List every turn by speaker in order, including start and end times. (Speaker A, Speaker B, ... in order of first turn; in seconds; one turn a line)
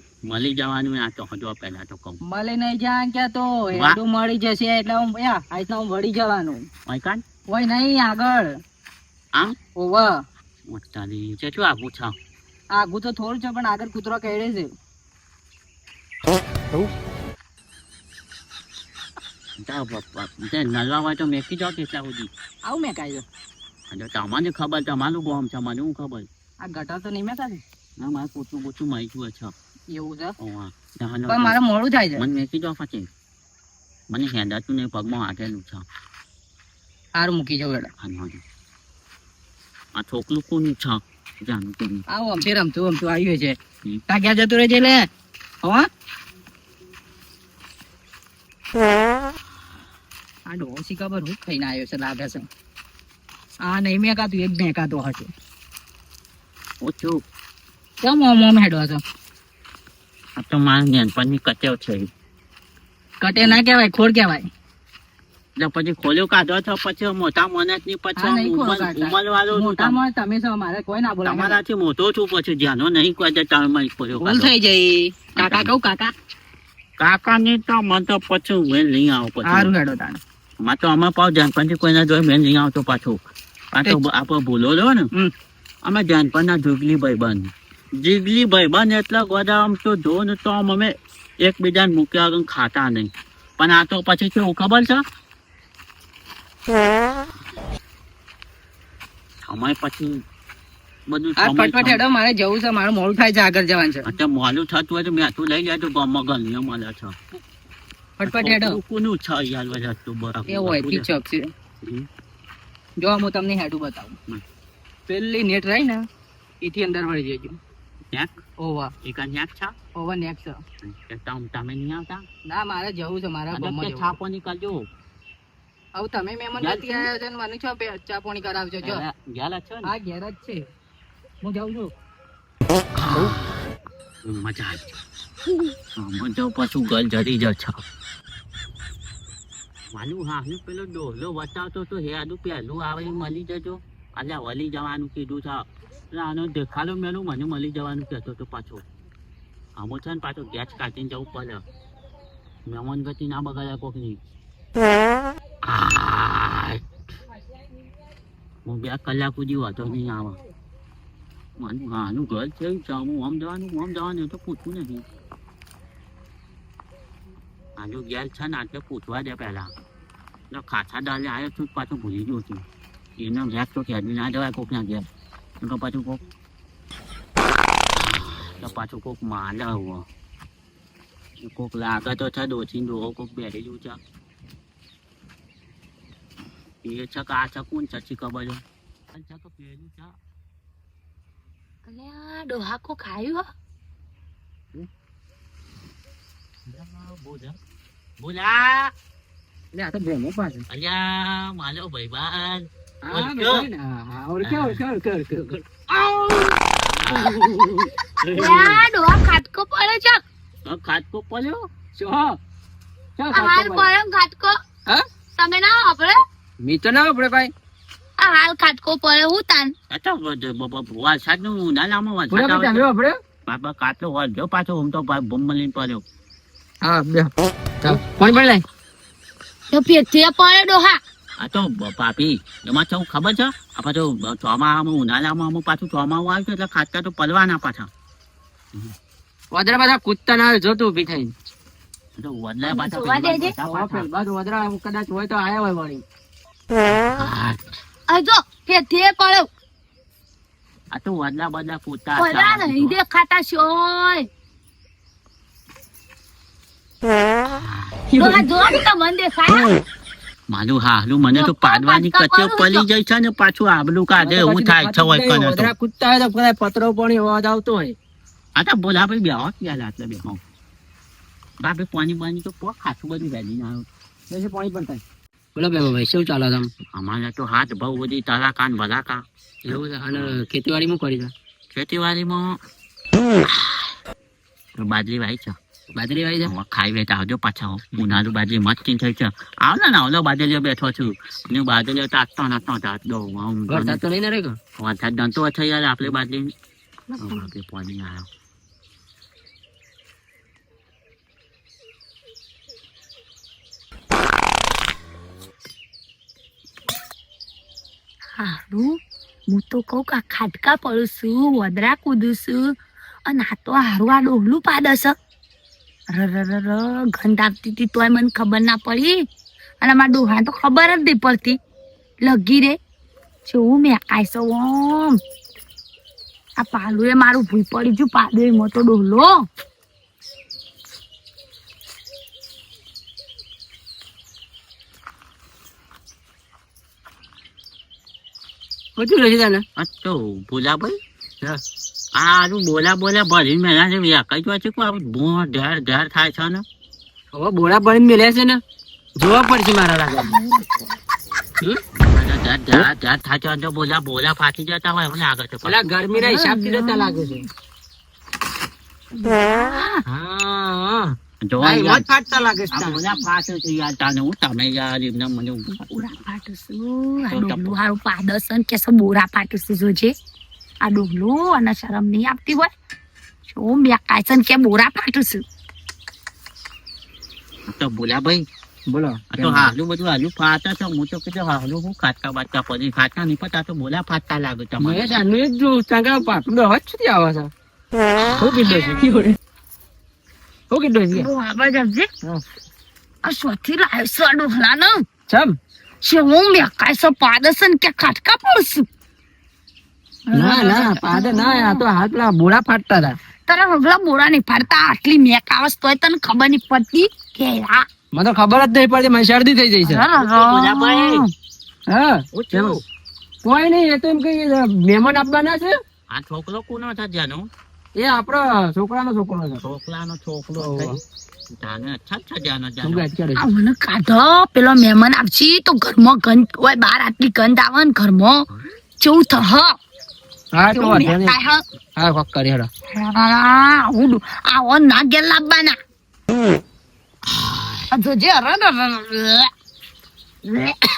Speaker A: 0.2-2.2
Speaker B: 2.2-6.7
Speaker A: 3.7-4.0
Speaker A: 6.9-7.2
Speaker B: 7.5-8.6
Speaker B: 9.8-10.2
Speaker A: 10.7-12.2
Speaker B: 12.7-14.7
Speaker A: 19.6-22.3
Speaker B: 22.6-23.2
Speaker A: 23.9-26.3
Speaker B: 26.6-27.6
Speaker A: 28.0-29.5
Speaker B: 29.9-30.3
Speaker A: 30.4-31.6
Speaker B: 31.3-32.2
Speaker A: 32.2-33.1
Speaker A: 34.1-35.8
Speaker B: 37.1-37.9
Speaker A: 38.0-38.4
Speaker A: 39.9-42.0
Speaker B: 42.1-43.6
Speaker B: 44.1-45.1
Speaker B: 45.6-45.9
Speaker B: 50.5-52.5
Speaker B: 53.6-55.3
Speaker A: 56.8-57.2
Speaker B: 58.0-59.0
Speaker A: 60.4-62.1
Speaker B: 63.2-64.5
Speaker A: 65.6-70.0
Speaker B: 68.2-71.6
Speaker A: 71.2-74.5
Speaker B: 74.1-76.1
Speaker A: 75.3-75.7
Speaker A: 77.0-79.7
Speaker B: 79.4-80.2
Speaker A: 80.6-83.2
Speaker A: 83.7-85.1
Speaker A: 85.8-87.5
Speaker A: 88.0-90.9
Speaker A: 91.4-95.0
Speaker A: 99.5-100.2
Speaker A: 101.1-102.0
Speaker B: 101.4-104.1
Speaker A: 104.0-107.2
Speaker B: 108.2-108.8
Speaker A: 108.2-111.1
Speaker B: 110.5-111.5
Speaker B: 113.0-114.2
Speaker B: 115.1-116.0
Speaker B: 116.6-117.6
Speaker B: 118.6-118.9
Speaker A: 119.0-119.7
Speaker B: 120.0-120.6
Speaker A: 120.8-122.2
Speaker B: 122.5-124.1
Speaker A: 123.5-124.8
Speaker B: 126.0-129.0
Speaker A: 126.6-127.1
Speaker A: 128.8-129.9
Speaker B: 129.8-130.6
Speaker B: 131.4-131.9
Speaker A: 132.9-133.4
Speaker A: 134.2-135.0
Speaker A: 136.0-137.8
Speaker A: 139.9-148.8
Speaker A: 149.8-151.6
Speaker A: 152.7-154.2
Speaker A: 155.6-156.8
Speaker A: 158.6-160.4
Speaker A: 161.6-165.0
Speaker A: 167.8-169.7
Speaker A: 170.5-172.6
Speaker A: 173.2-175.1
Speaker A: 175.6-176.2
Speaker A: 178.0-180.1
Speaker A: 181.4-184.0
Speaker A: 186.8-190.2
Speaker C: 191.8-193.5
Speaker A: 196.7-197.6
Speaker A: 198.2-198.9
Speaker D: 199.7-200.7
Speaker A: 200.7-203.7
Speaker D: 203.0-207.5
Speaker A: 204.4-204.8
Speaker A: 207.0-208.6
Speaker D: 208.3-208.8
Speaker C: 208.3-210.2
Speaker A: 210.6-211.7
Speaker D: 211.9-212.4
Speaker D: 213.2-213.9
Speaker C: 213.3-214.6
Speaker C: 215.3-216.2
Speaker D: 216.6-217.5
Speaker C: 218.2-219.7
Speaker A: 219.9-222.8
Speaker D: 222.3-223.2
Speaker A: 223.5-226.0
Speaker D: 226.8-228.6
Speaker C: 229.7-231.0
Speaker A: 231.4-237.9
Speaker D: 239.5-241.3
Speaker A: 242.2-244.1
Speaker C: 242.7-243.5
Speaker D: 243.6-246.0
Speaker A: 246.9-247.6
Speaker C: 248.1-249.5
Speaker A: 250.9-252.9
Speaker C: 252.2-254.3
Speaker A: 257.6-257.9
Speaker D: 258.1-258.4
Speaker C: 258.2-259.8
Speaker A: 260.5-265.7
Speaker C: 261.3-262.9
Speaker D: 264.2-267.9
Speaker A: 268.6-270.4
Speaker A: 271.6-273.9
Speaker D: 274.3-275.0
Speaker D: 275.5-276.7
Speaker A: 276.9-279.2
Speaker D: 279.6-281.3
Speaker A: 280.1-280.4
Speaker A: 281.7-282.6
Speaker A: 284.8-285.6
Speaker D: 285.9-286.5
Speaker A: 286.4-294.0
Speaker D: 293.7-294.6
Speaker A: 294.8-296.5
Speaker C: 297.1-297.4
Speaker A: 297.2-298.3
Speaker C: 308.4-309.0
Speaker C: 309.5-312.7
Speaker C: 313.2-315.1
Speaker C: 316.1-319.2
Speaker C: 319.8-321.6
Speaker C: 322.2-322.8
Speaker C: 323.4-325.2
Speaker C: 326.6-329.4
Speaker D: 338.9-339.6
Speaker A: 339.8-341.0
Speaker A: 342.1-346.6
Speaker D: 347.3-348.6
Speaker D: 349.2-350.4
Speaker C: 350.2-350.8
Speaker A: 351.9-355.9
Speaker D: 355.6-357.4
Speaker C: 356.1-357.4
Speaker C: 359.1-360.0
Speaker D: 360.1-363.0
Speaker A: 361.4-362.1
Speaker A: 362.7-366.1
Speaker C: 365.8-370.1
Speaker A: 367.3-367.8
Speaker C: 370.8-372.7
Speaker C: 373.5-375.4
Speaker A: 377.7-378.4
Speaker D: 378.9-379.7
Speaker A: 379.3-385.2
Speaker D: 384.8-387.5
Speaker D: 388.4-389.4
Speaker D: 390.7-391.3
Speaker C: 391.1-392.1
Speaker C: 393.2-395.0
Speaker D: 395.3-395.6
Speaker C: 396.0-398.9
Speaker C: 400.3-401.8
Speaker D: 400.3-403.2
Speaker C: 403.5-407.8
Speaker D: 408.1-410.0
Speaker C: 409.8-411.3
Speaker A: 410.1-411.2
Speaker D: 411.9-412.8
Speaker A: 412.3-412.8
Speaker D: 413.4-415.8
Speaker A: 416.1-417.5
Speaker D: 417.9-419.6
Speaker A: 419.6-423.1
Speaker D: 420.6-421.0
Speaker D: 422.8-423.5
Speaker C: 423.4-428.4
Speaker C: 429.0-429.8
Speaker D: 430.5-431.4
Speaker C: 430.7-431.6
Speaker D: 431.9-432.7
Speaker C: 432.9-435.8
Speaker C: 437.9-439.5
Speaker C: 440.5-440.8